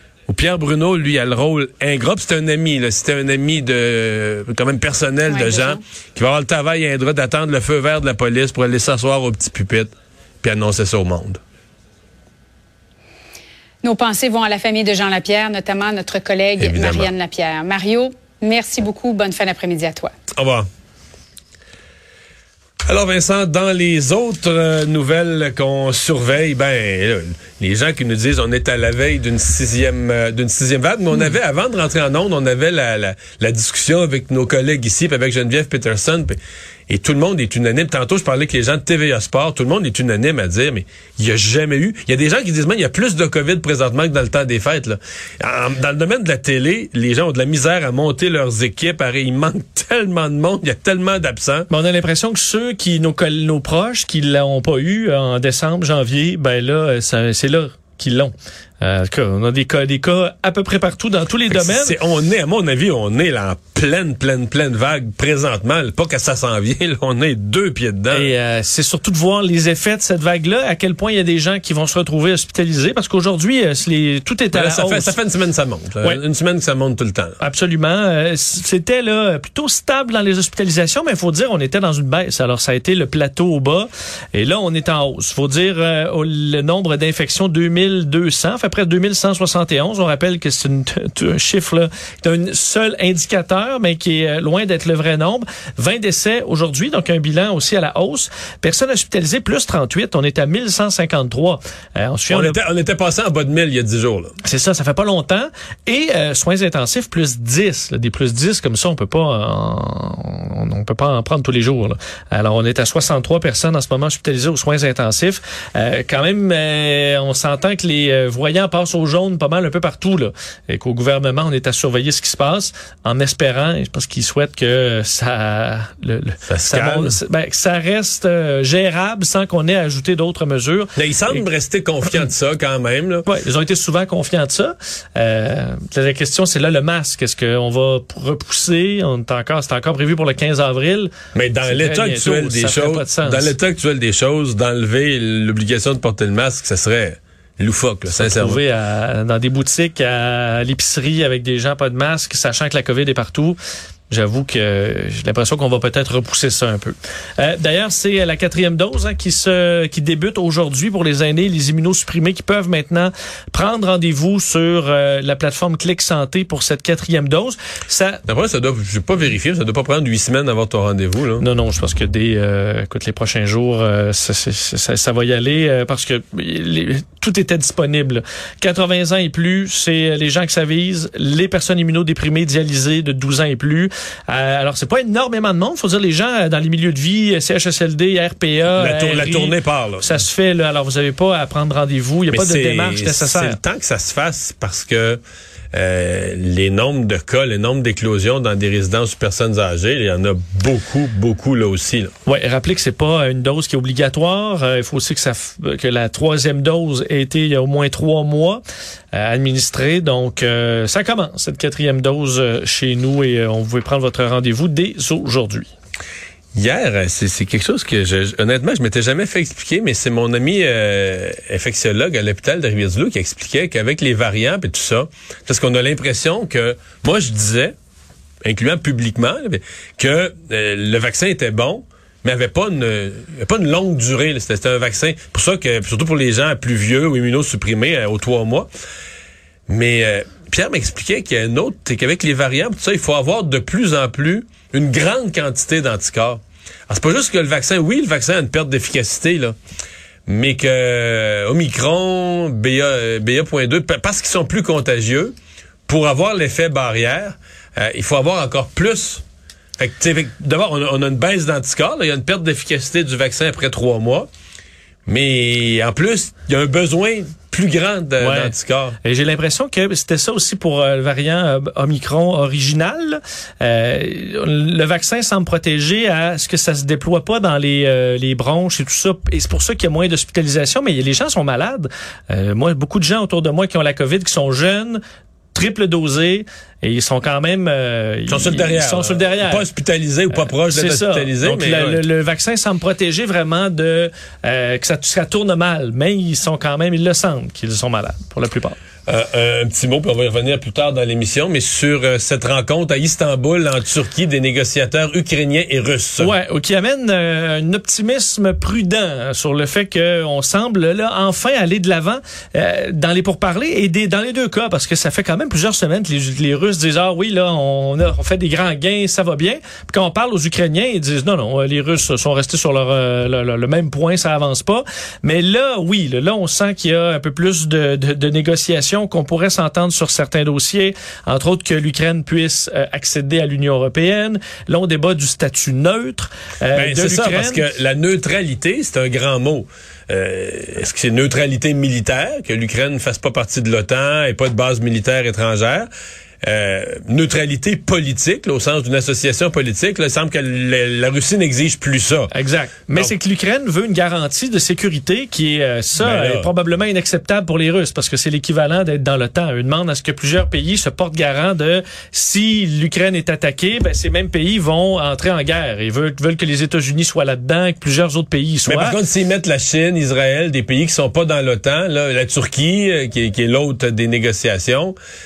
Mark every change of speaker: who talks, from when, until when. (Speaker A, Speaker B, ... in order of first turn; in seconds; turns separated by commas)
Speaker A: 0.3-9.9, Speaker B: 5.3-5.8, Speaker A: 10.4-11.4, Speaker B: 13.8-20.1, Speaker A: 16.6-17.1, Speaker A: 20.4-20.7, Speaker A: 22.9-36.4, Speaker A: 36.9-51.7, Speaker C: 51.7-62.0, Speaker A: 61.5-68.3, Speaker C: 68.1-75.2, Speaker A: 74.5-77.4, Speaker C: 77.4-102.6, Speaker A: 102.3-104.3, Speaker C: 104.4-131.4, Speaker A: 126.5-127.2, Speaker A: 130.9-133.2, Speaker C: 133.2-141.1, Speaker A: 141.3-148.6, Speaker C: 141.6-143.5, Speaker C: 148.1-153.6, Speaker C: 154.1-168.2, Speaker A: 168.3-171.4, Speaker C: 171.4-193.6, Speaker A: 188.7-190.1, Speaker A: 192.3-195.2, Speaker A: 195.7-202.1, Speaker C: 202.2-208.6, Speaker C: 209.1-215.7, Speaker A: 216.6-227.7, Speaker A: 228.4-238.7, Speaker A: 239.7-249.5, Speaker A: 250.3-255.3, Speaker A: 255.9-259.2, Speaker A: 259.8-264.3, Speaker A: 265.1-268.9, Speaker C: 268.2-285.0, Speaker C: 285.5-289.6, Speaker A: 288.3-292.0, Speaker C: 290.3-298.8, Speaker A: 299.1-306.3, Speaker C: 306.2-337.7, Speaker A: 336.7-345.9, Speaker A: 346.4-352.3, Speaker C: 352.3-369.0, Speaker A: 356.0-356.5, Speaker A: 368.7-374.9